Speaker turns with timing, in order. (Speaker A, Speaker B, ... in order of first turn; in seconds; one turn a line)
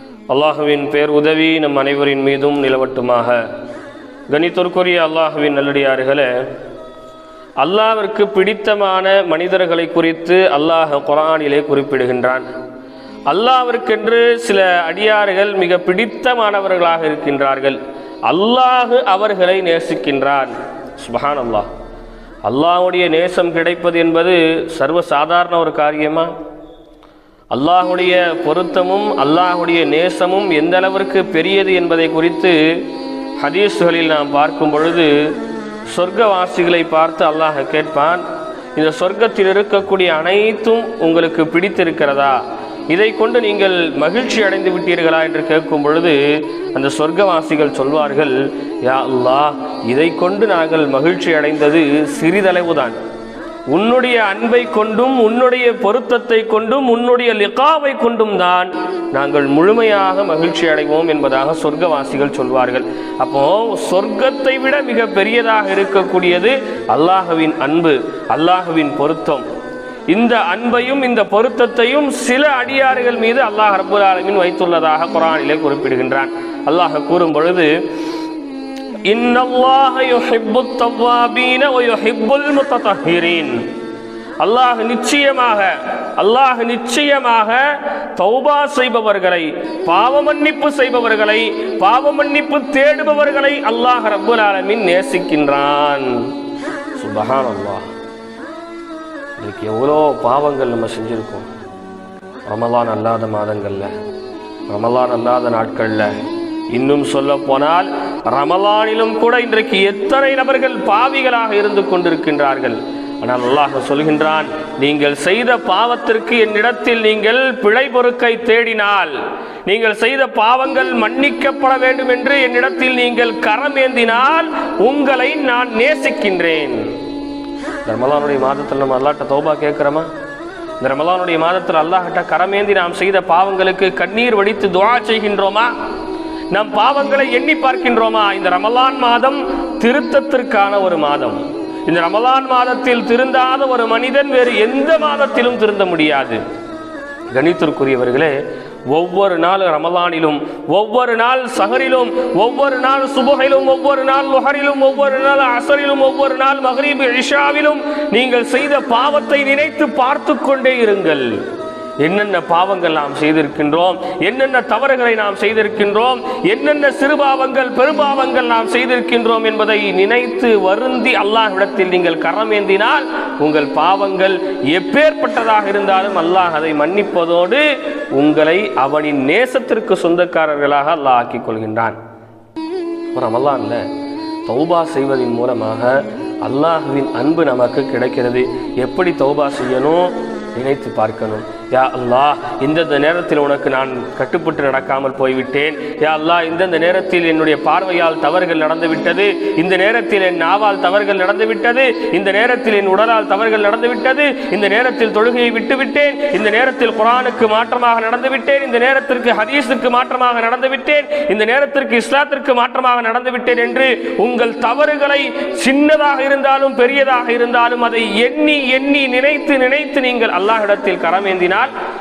Speaker A: 0.3-3.5
Speaker A: 4.3-6.3
Speaker A: 7.6-12.4
Speaker A: 13.3-21.7
Speaker A: 22.4-26.3
Speaker A: 27.5-32.5
Speaker A: 33.4-35.1
Speaker A: 35.9-38.2
Speaker A: 38.8-46.2
Speaker A: 46.7-53.0
Speaker A: 53.7-69.4
Speaker A: 70.1-77.7
Speaker A: 79.1-83.6
Speaker A: 84.4-96.3
Speaker A: 97.0-97.8
Speaker A: 99.4-101.5
Speaker A: 102.5-103.9
Speaker A: 104.7-106.1
Speaker A: 106.7-119.1
Speaker A: 119.7-126.8
Speaker A: 127.8-130.1
Speaker A: 130.8-135.7
Speaker A: 136.5-146.4
Speaker A: 147.3-148.3
Speaker A: 148.9-161.3
Speaker A: 162.0-182.0
Speaker A: 183.1-183.8
Speaker A: 184.4-221.7